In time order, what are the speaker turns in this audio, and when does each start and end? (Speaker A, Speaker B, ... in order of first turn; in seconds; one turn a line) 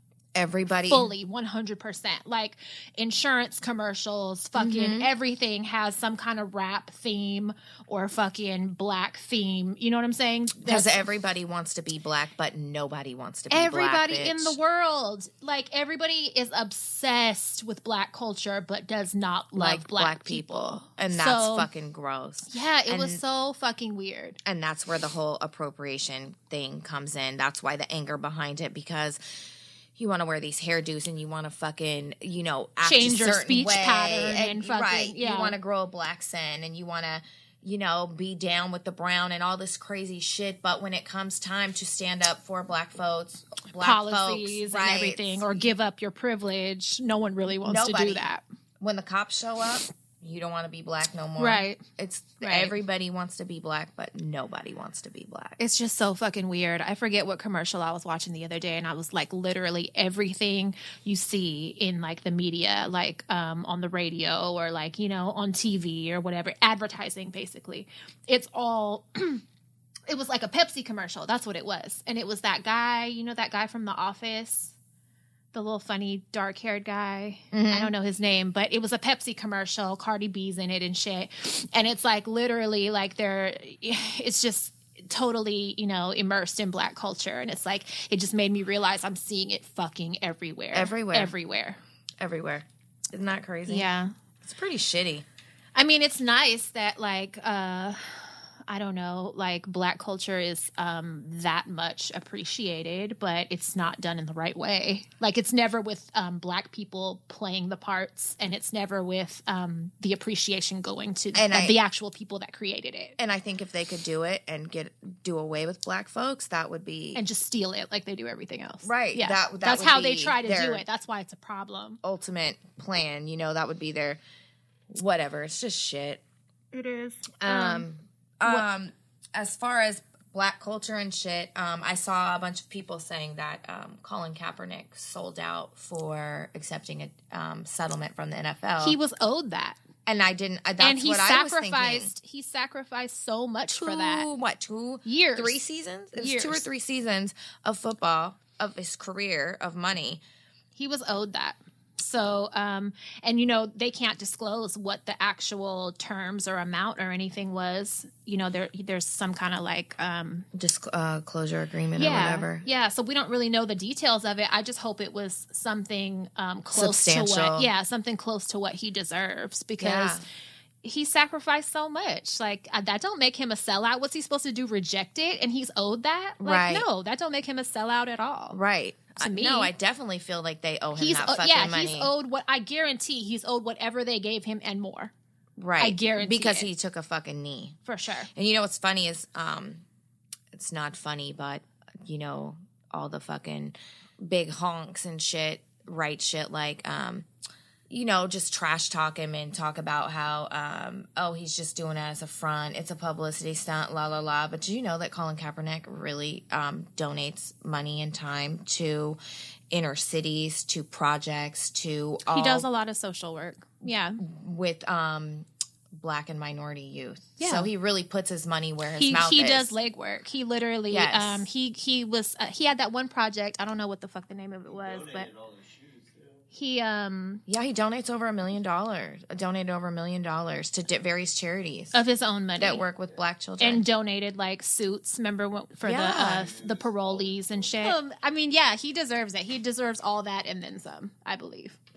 Speaker A: 0.3-1.1
Speaker B: 0.9-11.0
Speaker A: 4.5-5.1
Speaker A: 10.6-14.6
Speaker B: 13.5-21.7
Speaker A: 19.5-23.2
Speaker B: 22.5-24.4
Speaker A: 24.4-45.6
Speaker B: 32.8-35.5
Speaker B: 43.8-48.4
Speaker A: 47.6-48.2
Speaker A: 48.8-55.6
Speaker B: 51.4-51.8
Speaker B: 52.4-52.7
Speaker B: 55.6-69.4
Speaker B: 70.1-74.8
Speaker B: 75.5-91.8
Speaker A: 77.5-77.9
Speaker A: 90.7-91.3
Speaker A: 92.2-93.9
Speaker B: 93.7-94.1
Speaker A: 94.4-95.2
Speaker B: 95.8-113.2
Speaker A: 111.3-111.8
Speaker A: 113.2-117.2
Speaker B: 117.1-122.0
Speaker A: 118.8-120.8
Speaker A: 122.0-124.2
Speaker A: 124.9-126.2
Speaker B: 126.7-127.8
Speaker A: 127.4-139.0
Speaker B: 138.8-139.8
Speaker A: 140.1-142.1
Speaker B: 140.8-144.3
Speaker A: 143.7-150.2
Speaker B: 145.0-145.6
Speaker B: 146.1-146.7
Speaker B: 150.7-160.5
Speaker A: 160.5-162.6
Speaker B: 161.9-170.2
Speaker A: 166.7-167.7
Speaker A: 169.8-170.2
Speaker B: 170.8-178.6
Speaker A: 176.4-176.8
Speaker A: 178.5-182.1
Speaker B: 179.2-179.7
Speaker B: 180.9-185.1
Speaker A: 185.6-187.8
Speaker B: 185.8-186.7
Speaker B: 187.8-188.3
Speaker A: 188.3-189.8
Speaker A: 190.5-197.3
Speaker A: 197.9-209.2
Speaker A: 209.7-212.7
Speaker B: 212.3-214.2
Speaker A: 213.8-219.7
Speaker B: 217.4-217.7
Speaker B: 218.9-225.3
Speaker A: 220.9-221.4
Speaker C: 224.7-226.4
Speaker B: 226.5-227.4
Speaker A: 227.5-232.0
Speaker B: 231.9-232.8
Speaker A: 232.6-233.8
Speaker B: 233.6-241.8
Speaker A: 235.8-236.5
Speaker C: 236.1-238.0